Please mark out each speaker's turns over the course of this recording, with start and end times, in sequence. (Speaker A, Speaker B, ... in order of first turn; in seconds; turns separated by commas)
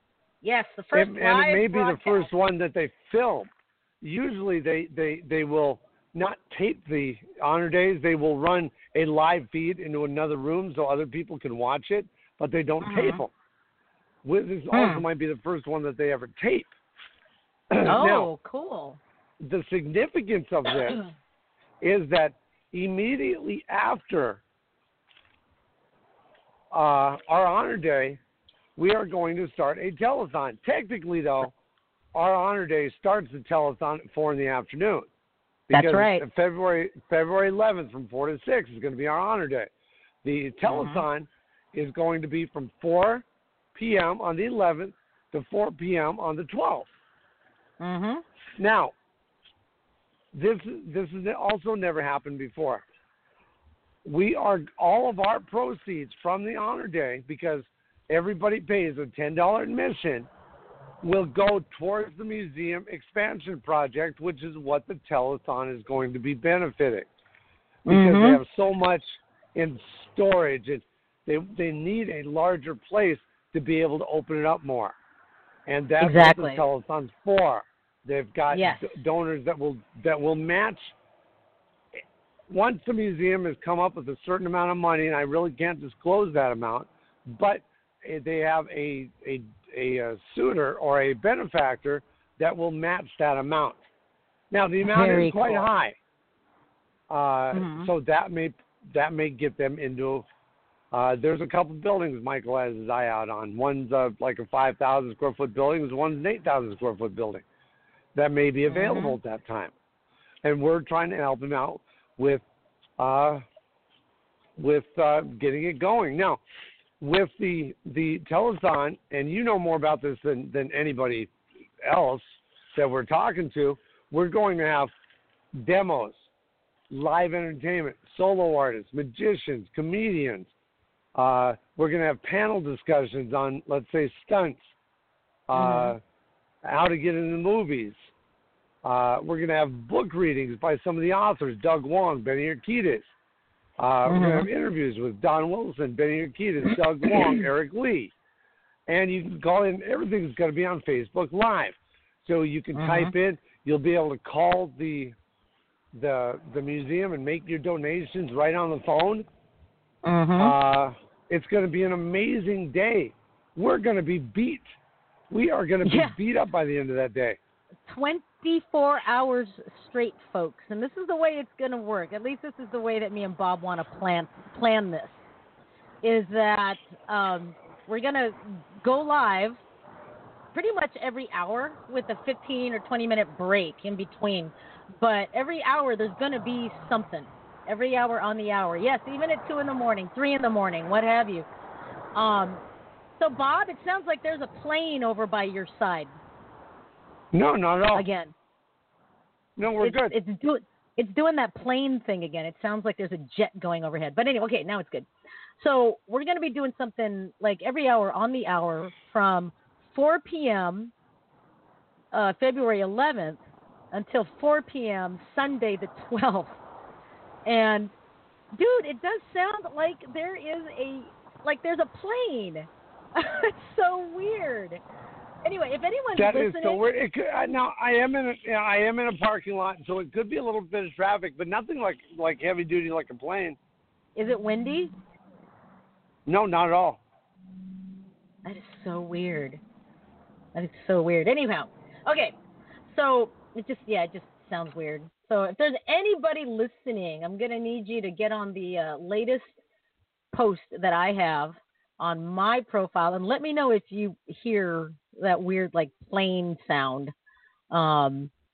Speaker A: 0.4-2.3, Speaker B: 0.9-3.5, Speaker B: 4.0-13.3, Speaker A: 12.8-13.2, Speaker B: 14.2-16.7, Speaker A: 14.7-15.1, Speaker B: 17.7-18.3, Speaker A: 17.9-19.0, Speaker B: 19.4-21.0, Speaker B: 21.8-24.4, Speaker B: 26.7-28.2, Speaker B: 28.8-31.5, Speaker B: 32.1-35.1, Speaker B: 35.7-39.7, Speaker A: 35.7-36.3, Speaker B: 40.2-46.9, Speaker A: 40.6-41.0, Speaker A: 47.8-48.2, Speaker B: 48.6-48.9, Speaker B: 50.3-52.8, Speaker B: 54.0-60.3, Speaker B: 61.0-67.1, Speaker B: 67.9-75.0, Speaker A: 67.9-68.4, Speaker B: 75.7-80.9, Speaker A: 76.0-76.6, Speaker A: 78.5-79.0, Speaker B: 82.5-93.8, Speaker B: 94.5-96.0, Speaker A: 94.9-95.7, Speaker B: 97.1-100.3, Speaker A: 97.5-97.9, Speaker B: 100.9-107.4, Speaker B: 108.1-109.7, Speaker A: 108.7-109.2, Speaker B: 110.4-112.4, Speaker B: 113.0-113.4, Speaker B: 114.6-116.4, Speaker B: 117.0-121.3, Speaker B: 121.8-124.9, Speaker B: 125.5-126.3, Speaker B: 126.9-130.5, Speaker B: 131.2-134.6, Speaker B: 135.5-136.0, Speaker A: 135.6-135.9, Speaker B: 136.6-138.1, Speaker B: 138.8-143.1, Speaker B: 143.8-148.1, Speaker A: 144.1-144.5, Speaker B: 148.9-155.2, Speaker A: 152.7-153.1, Speaker B: 155.9-159.3, Speaker A: 160.0-160.6, Speaker B: 160.4-164.8, Speaker B: 165.3-167.4, Speaker A: 165.8-166.2, Speaker A: 167.9-175.3, Speaker A: 176.0-179.6, Speaker A: 180.5-191.5, Speaker A: 192.2-192.6, Speaker A: 193.2-196.2, Speaker B: 197.3-198.1, Speaker A: 197.9-198.3, Speaker B: 199.6-200.2, Speaker A: 199.8-205.1, Speaker A: 205.6-210.9, Speaker A: 212.1-216.6, Speaker A: 217.4-217.9, Speaker A: 218.5-224.8, Speaker A: 225.4-226.8, Speaker B: 226.2-233.6, Speaker A: 234.2-234.9, Speaker B: 236.3-237.0, Speaker A: 238.4-239.6, Speaker A: 240.5-242.3, Speaker A: 242.9-249.6, Speaker A: 250.3-257.1, Speaker A: 257.7-258.3